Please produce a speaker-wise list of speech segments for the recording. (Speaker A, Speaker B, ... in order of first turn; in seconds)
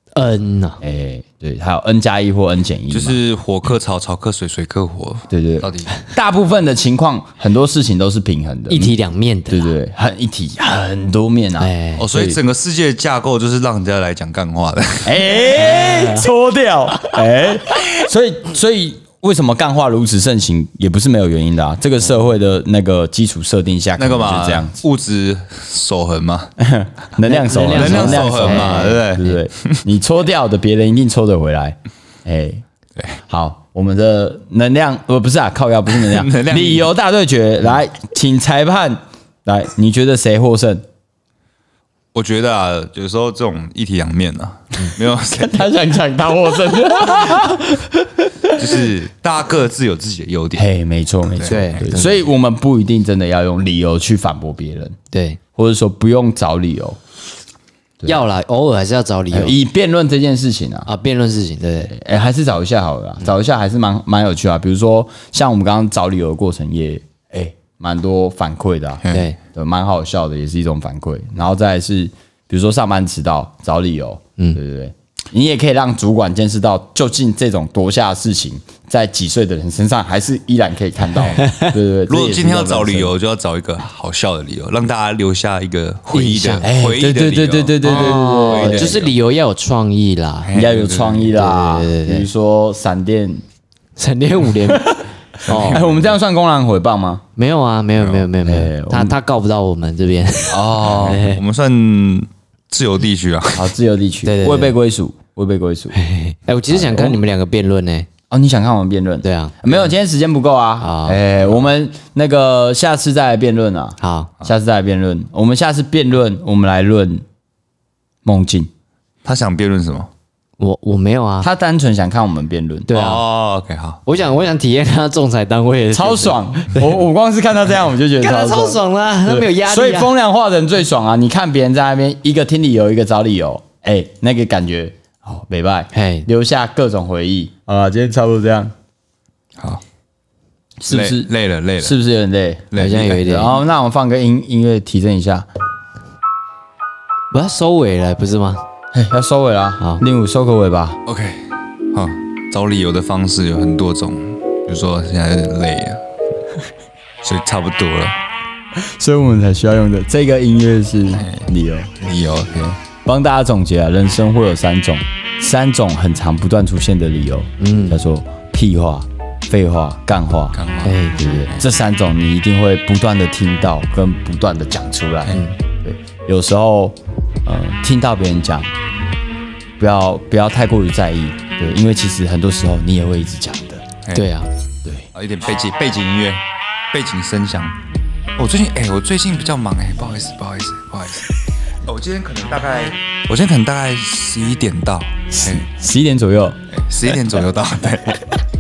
Speaker A: 0.1-0.8, 8.7-9.7, 11.6-12.1, 15.6-16.3, 27.2-29.1, 51.5-52.3, 55.1-55.4, 58.0-59.6, 60.9-61.9, 69.1-69.4, 81.4-81.7, 86.1-86.7, 87.8-90.5, 91.3-92.3, 94.0-95.8, 97.4-101.4, 104.2-104.8, 105.9-108.1, 109.2-109.9, 110.8-111.2, 114.0-114.3, 120.6-121.5, 122.9-123.2, 124.1-126.4, 128.2-130.1, 135.9-136.3, 142.8-143.6, 147.3-148.6, 167.6-168.0, 170.8-171.5, 175.3-175.6, 184.2-184.5
Speaker B: 0.8-3.2, 5.3-8.9, 9.5-12.4, 15.0-24.8, 26.6-32.6, 33.3-40.9, 45.3-48.8, 50.6-55.0, 55.6-57.0, 59.3-60.9, 61.9-83.1, 86.6-89.0, 90.5-93.4, 94.7-95.0, 95.7-97.2, 98.4-99.2, 100.5-101.2, 103.6-106.0, 106.7-107.2, 108.3-117.2, 118.2-118.7, 121.4-122.9, 125.9-138.7, 140.8-141.3, 141.8-145.5, 148.9-151.0, 158.8-162.0, 162.5-170.6, 171.2-178.7, 179.8-183.8, 195.3-196.6
Speaker C: 2.9-6.0, 12.0-15.2, 24.0-26.5, 27.7-29.8, 36.0-36.9, 42.1-45.7, 48.5-50.7, 51.3-51.7, 82.1-89.1, 90.5-91.3, 95.5-96.2, 98.0-98.3, 100.9-103.7, 119.2-120.1, 122.9-124.0, 140.8-142.0, 142.7-143.4, 151.1-156.0, 157.2-158.2, 161.2-161.5, 162.0-162.7, 170.5-171.1, 185.1-186.4, 186.9-187.8, 188.4-191.3, 191.8-195.7, 196.7-198.3